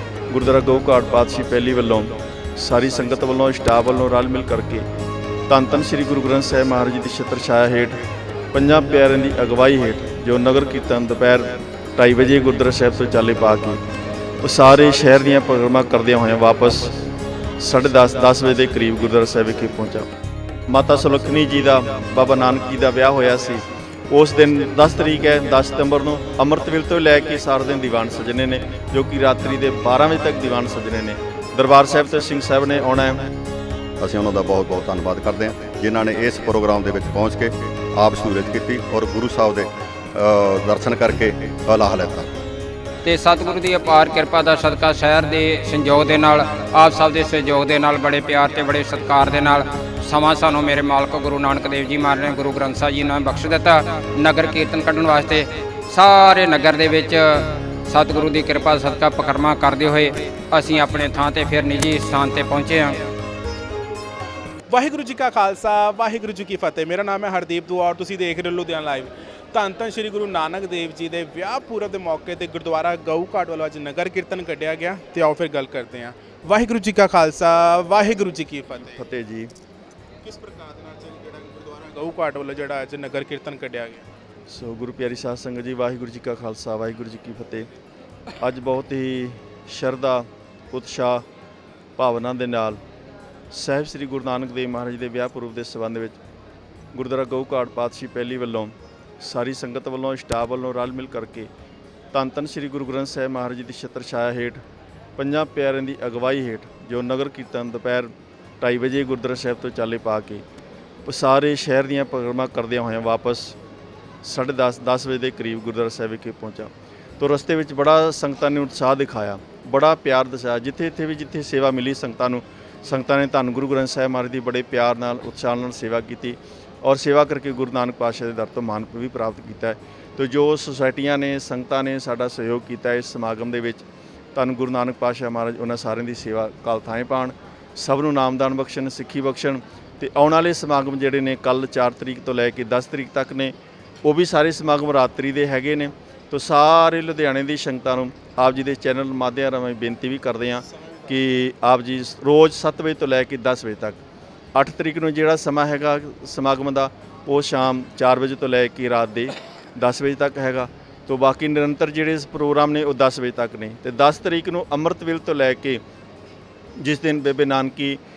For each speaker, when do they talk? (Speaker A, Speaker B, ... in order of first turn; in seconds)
Speaker A: 0.3-4.8, 5.5-8.0, 8.5-13.8, 14.4-17.0, 17.6-20.1, 20.7-33.2, 78.9-79.5, 84.5-87.7, 88.4-91.2, 92.0-92.8, 93.5-96.2, 96.9-101.5, 102.1-104.6, 105.2-110.4, 111.0-113.5, 114.2-133.8, 134.3-154.0, 154.5-165.8, 166.8-168.0
Speaker B: 34.0-42.3
Speaker C: 43.0-63.0
Speaker D: 64.7-78.9, 80.2-84.0